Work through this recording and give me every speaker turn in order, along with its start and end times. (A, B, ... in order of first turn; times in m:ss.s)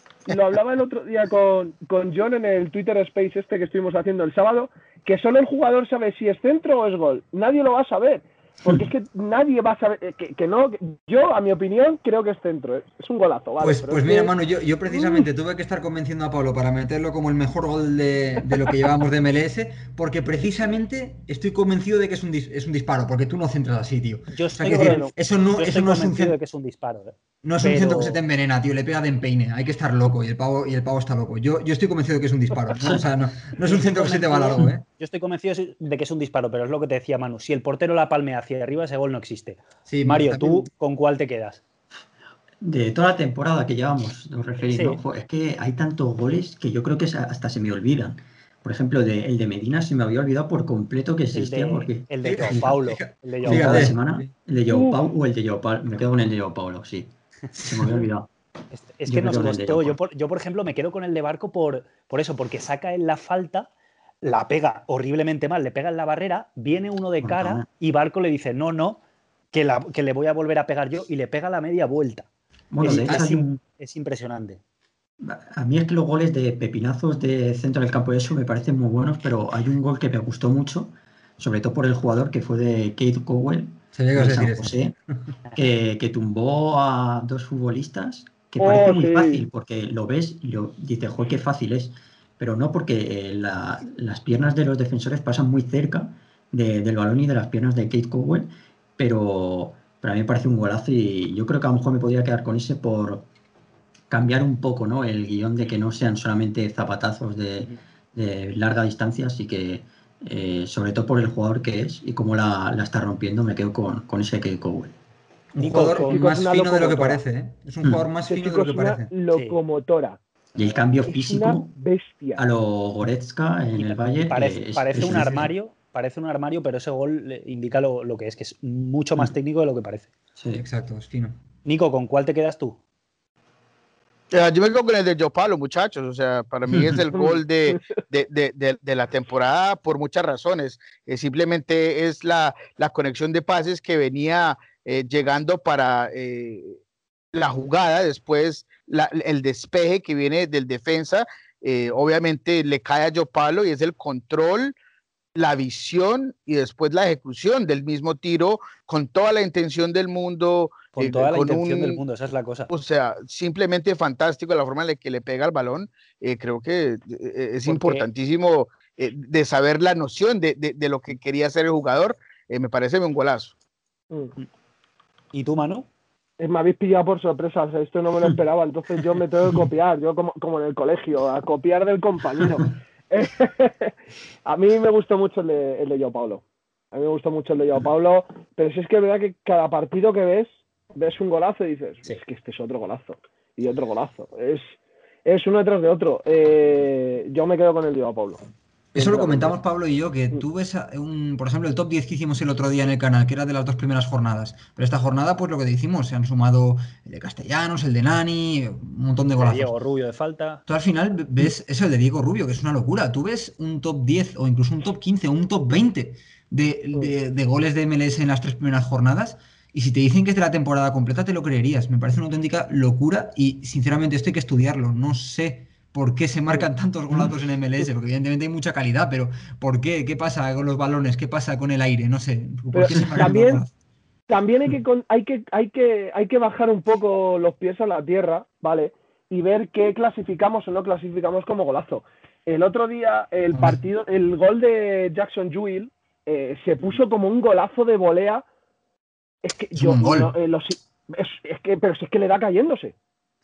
0:00.3-0:14.3 A
0:13.6-0:26.4 B
0:14.9-0:15.3 A
0:24.3-0:28.2 C
0:24.6-0:25.1 A
0:27.4-0:34.8 B
0:32.7-0:33.0 D
0:33.6-0:41.6 C
0:39.9-0:40.7 B
0:42.6-0:52.8 D
0:44.6-0:45.0 C
0:51.3-0:53.9 C
0:52.2-0:54.3 B
0:53.4-0:58.3 D
0:54.7-0:55.0 A
0:57.6-0:58.0 B
0:58.7-1:03.7 C
0:59.1-1:00.0 D
1:04.2-1:12.3 C
1:07.2-1:07.7 D
1:12.7-1:13.6 D
1:12.8-1:14.6 C
1:15.2-1:25.0 D
1:24.0-1:24.8 B
1:25.5-1:43.3 D
1:28.6-1:29.4 A
1:44.1-1:55.0 D
1:55.5-1:59.1 B
1:55.6-1:57.2 A
1:58.3-2:00.2 A
1:59.3-1:59.6 C
2:00.6-2:01.7 D
2:01.1-2:02.4 A
2:02.4-2:05.5 D
2:03.8-2:10.1 C
2:05.0-2:05.4 B
2:10.4-2:10.6 D
2:10.5-2:11.4 B
2:11.6-2:12.8 C
2:14.3-2:26.8 E
2:27.3-2:34.8 E
2:35.4-2:42.0 E
2:41.0-2:42.7 C
2:42.7-2:53.5 E
2:47.6-2:48.1 C
2:55.3-2:55.9 C
2:56.4-3:03.9 A
3:04.5-3:19.6 A
3:18.9-3:29.7 B
3:29.4-3:30.6 C
3:30.7-3:53.7 B
3:52.7-3:53.6 A
3:54.3-4:08.4 A
4:09.4-4:12.9 A
4:09.8-4:10.3 B